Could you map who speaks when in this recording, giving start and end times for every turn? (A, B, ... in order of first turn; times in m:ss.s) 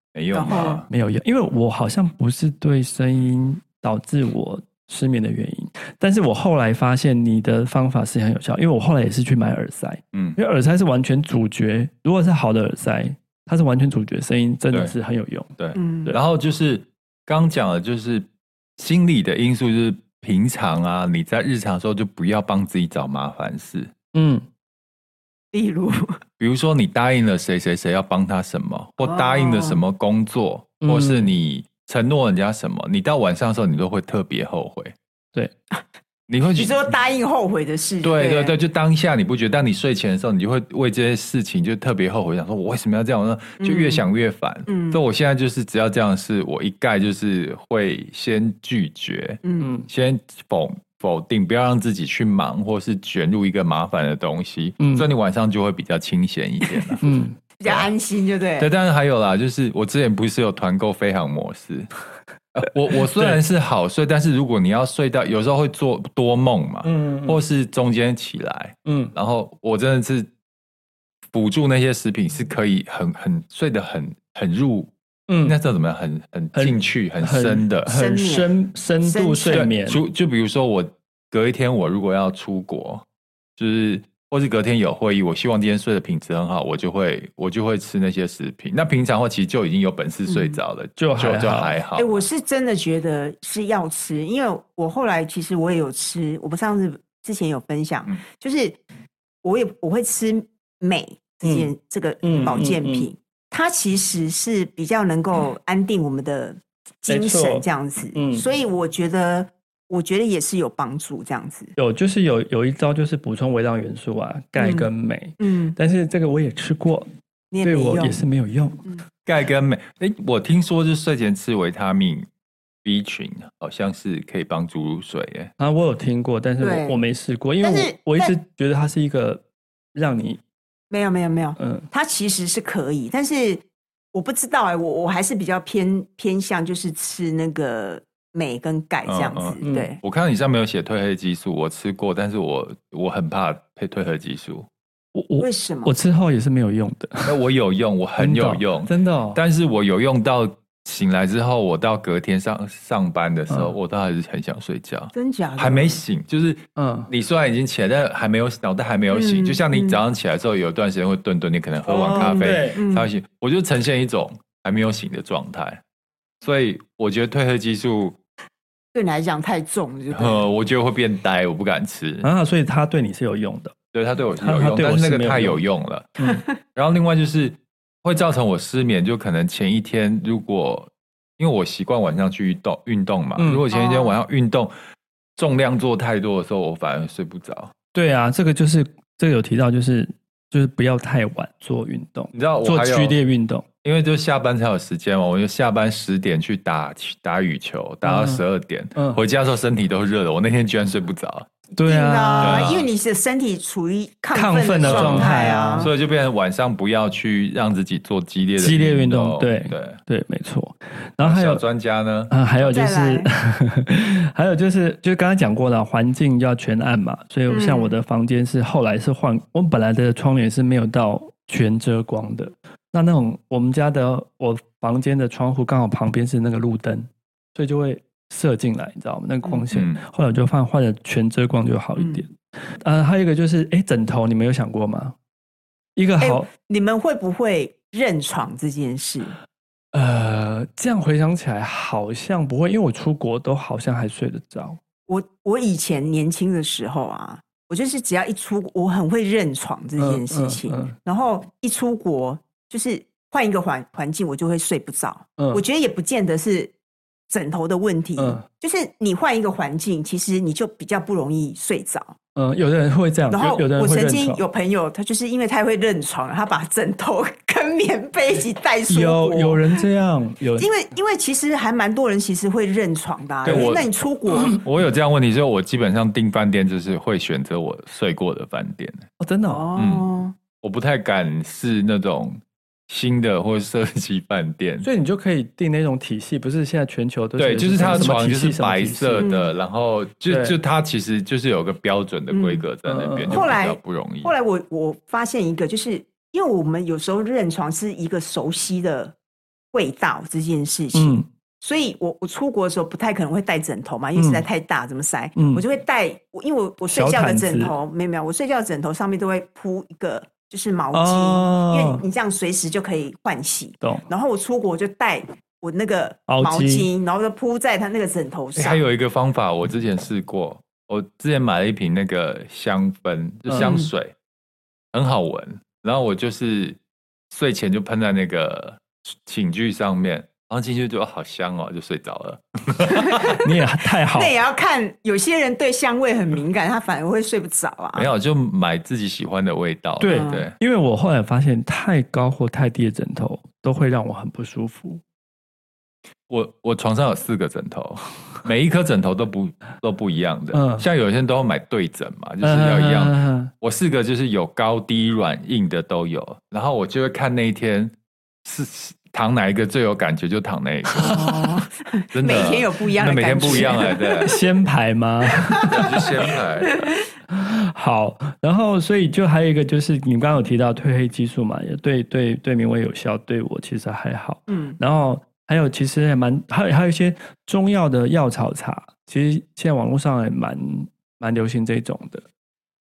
0:00.1-0:00.9 A
0:00.3-0:00.8 B
0:00.9-0:15.5 C
0:10.1-0:10.4 A
0:15.6-0:23.9 A
0:15.8-0:16.2 B
0:24.1-0:24.4 C
0:25.5-0:26.2 B
0:26.4-0:35.0 A
0:29.0-0:29.8 B
0:30.8-0:31.3 C
0:36.3-0:36.8 A
0:36.6-0:38.5 B
0:38.0-0:57.0 A
0:43.6-0:44.0 B
0:44.7-0:45.0 B
0:49.4-0:49.7 B
0:49.6-0:49.9 C
0:54.8-0:55.1 C
0:57.0-0:57.4 C
0:57.6-0:58.7 B
0:57.6-0:57.9 A
0:58.6-1:01.9 A
1:02.5-1:10.3 A
1:03.1-1:03.4 C
1:06.8-1:07.4 C
1:08.8-1:09.1 C
1:11.3-1:14.9 A
1:15.3-1:15.6 C
1:15.4-1:17.9 A
1:16.6-1:20.0 C
1:17.9-1:18.5 B
1:19.0-1:19.7 B
1:19.5-1:23.0 A
1:23.6-1:32.2 A
1:30.3-1:30.6 B
1:31.0-1:31.8 C
1:32.0-1:38.8 B
1:39.4-1:51.7 B
1:42.2-1:43.1 C
1:47.1-1:48.5 C
1:51.8-1:57.1 C
1:54.6-1:54.9 B
1:55.4-1:55.8 B
1:57.5-1:58.2 B
1:57.6-1:58.8 C
1:59.3-2:02.3 A
2:02.8-2:05.5 A
2:05.6-2:09.4 C
2:06.6-2:07.0 B
2:07.6-2:08.4 B
2:10.0-2:10.4 C
2:10.9-2:20.0 B
2:11.6-2:11.9 C
2:19.1-2:24.7 A
2:19.6-2:19.9 C
2:25.2-2:27.3 C
2:25.4-2:25.9 B
2:27.2-2:45.8 A
2:28.2-2:29.4 C
2:35.1-2:36.0 B
2:36.8-2:37.1 C
2:39.1-2:40.0 B
2:41.9-2:42.8 C
2:42.0-2:43.1 B
2:46.4-2:48.2 A
2:48.9-2:50.5 B
2:50.1-2:52.3 A
2:52.2-2:53.7 C
2:53.9-2:56.2 A
2:54.4-2:55.6 C
2:56.8-3:04.7 A
3:03.4-3:03.7 C
3:03.7-3:04.2 B
3:05.4-3:07.7 A
3:07.9-3:13.6 C
3:12.3-3:13.2 A
3:13.8-3:21.5 A
3:18.0-3:18.4 C
3:19.0-3:19.2 C
3:21.8-3:22.7 C
3:21.8-3:25.9 B
3:22.4-3:22.9 A
3:24.3-3:25.9 C
3:24.8-3:30.0 A
3:28.6-3:31.6 C
3:31.2-3:32.3 A
3:32.3-3:55.2 C
3:32.6-3:33.3 B
3:37.5-3:38.0 B
3:49.7-3:50.0 A
3:52.0-3:52.2 B
3:56.0-3:56.5 C
3:56.2-3:59.4 B
3:59.9-4:04.8 C
4:05.1-4:16.7 B
4:10.0-4:11.0 C
4:17.3-4:22.2 B
4:18.2-4:18.4 C
4:22.4-4:24.4 C
4:23.3-4:29.8 B
4:28.9-4:30.7 C
4:30.6-4:34.6 B
4:33.4-4:33.8 C
4:33.4-4:33.9 A
4:34.3-4:34.6 C
4:34.5-4:39.1 A
4:39.2-4:39.7 C
4:39.5-4:40.4 B
4:39.8-4:40.1 A
4:40.6-4:44.9 A
4:44.8-4:49.3 C
4:47.4-4:54.3 A
4:49.2-4:49.5 B
4:50.3-4:50.6 C
4:52.3-4:52.6 B
4:52.8-4:53.5 C
4:53.3-4:59.2 B
4:59.7-5:18.8 B
5:00.9-5:01.3 C
5:04.2-5:04.4 C
5:05.4-5:05.6 C
5:06.9-5:07.7 C
5:10.9-5:12.0 C
5:16.3-5:16.9 C
5:18.6-5:24.1 A
5:23.6-5:23.9 B
5:24.9-5:26.8 A
5:27.3-5:33.4 A
5:32.9-5:33.5 B
5:33.4-5:34.4 C
5:34.1-5:38.1 B
5:38.0-5:40.5 A
5:40.0-5:45.0 C
5:40.1-5:40.5 B
5:46.3-5:57.9 A
5:50.5-5:50.9 C
5:52.4-5:53.5 C
5:58.4-6:01.5 A
6:01.0-6:04.4 B
6:02.1-6:04.3 A
6:03.4-6:06.0 C
6:05.4-6:07.0 B
6:05.7-6:06.8 A
6:07.3-6:22.3 C
6:14.5-6:14.8 B